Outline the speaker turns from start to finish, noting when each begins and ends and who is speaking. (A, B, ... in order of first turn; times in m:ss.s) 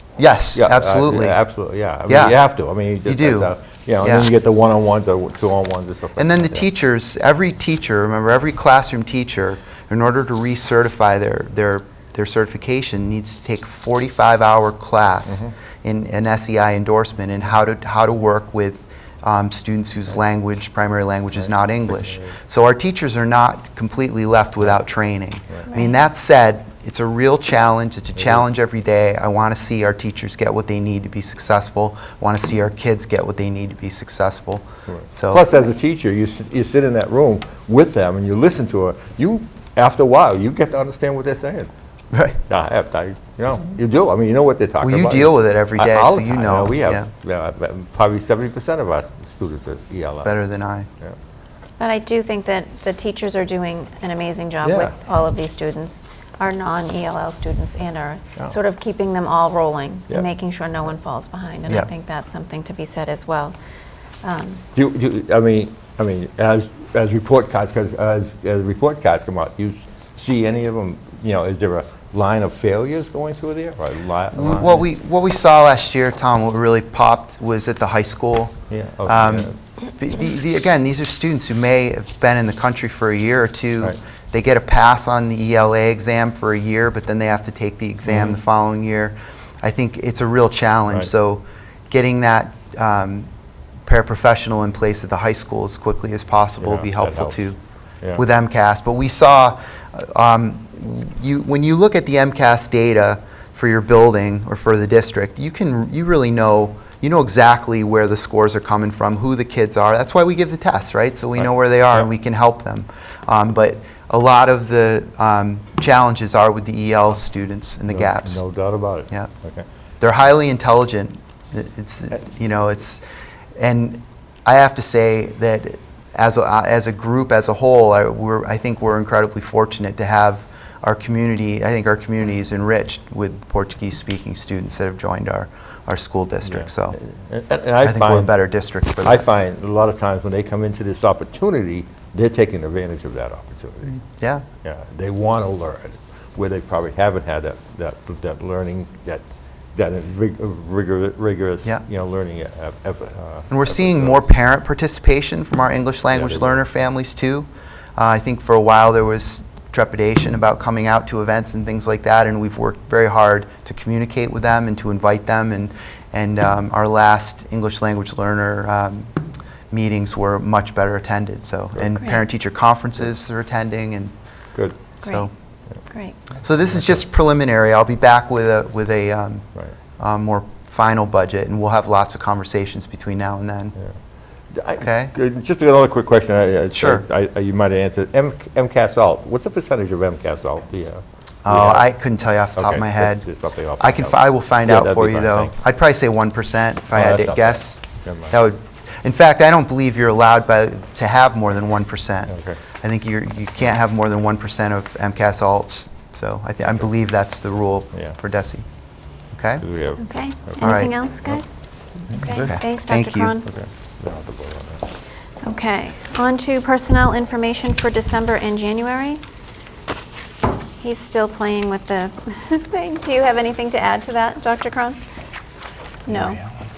0:00.2-0:01.4 A
0:00.6-0:06.6 B
0:02.1-0:02.4 A
0:03.0-0:04.3 A
0:06.2-0:35.5 A
0:15.3-0:15.5 B
0:28.2-0:28.4 B
0:34.9-0:41.7 B
0:42.1-0:42.4 A
0:42.5-0:50.5 B
0:44.8-0:47.1 A
0:50.2-0:50.9 A
0:51.8-1:03.6 C
0:54.6-0:55.0 B
1:04.2-1:04.6 C
1:04.8-1:14.8 B
1:14.4-1:33.3 A
1:18.7-1:19.6 B
1:28.1-1:28.4 B
1:33.9-1:37.6 A
1:36.6-1:38.2 B
1:38.2-1:58.4 A
1:57.9-1:59.6 B
2:00.0-2:03.0 A
2:03.6-2:17.0 A
2:16.5-2:18.4 B
2:17.8-2:19.3 A
2:19.0-2:24.0 B
2:24.2-2:24.4 A
2:24.6-2:29.2 B
2:29.8-2:34.3 B
2:33.5-2:49.1 A
2:36.1-2:36.7 B
2:49.7-2:54.1 A
2:51.8-2:52.0 B
2:55.0-2:55.3 A
2:55.9-2:56.2 C
2:56.4-2:59.5 A
3:00.0-3:03.7 A
3:04.5-3:11.9 B
3:04.8-3:05.1 A
3:06.7-3:07.0 A
3:11.4-3:13.3 A
3:12.6-3:15.6 B
3:13.8-3:17.8 A
3:16.9-3:18.4 B
3:18.3-3:28.7 A
3:22.3-3:22.6 B
3:29.3-3:29.6 A
3:29.6-3:31.4 B
3:30.0-3:31.5 C
3:30.6-3:30.9 A
3:32.1-3:32.6 B
3:32.2-3:33.4 A
3:32.5-3:33.5 C
3:33.5-3:34.9 B
3:35.4-3:39.2 C
3:40.8-3:45.0 C
3:46.1-3:46.4 C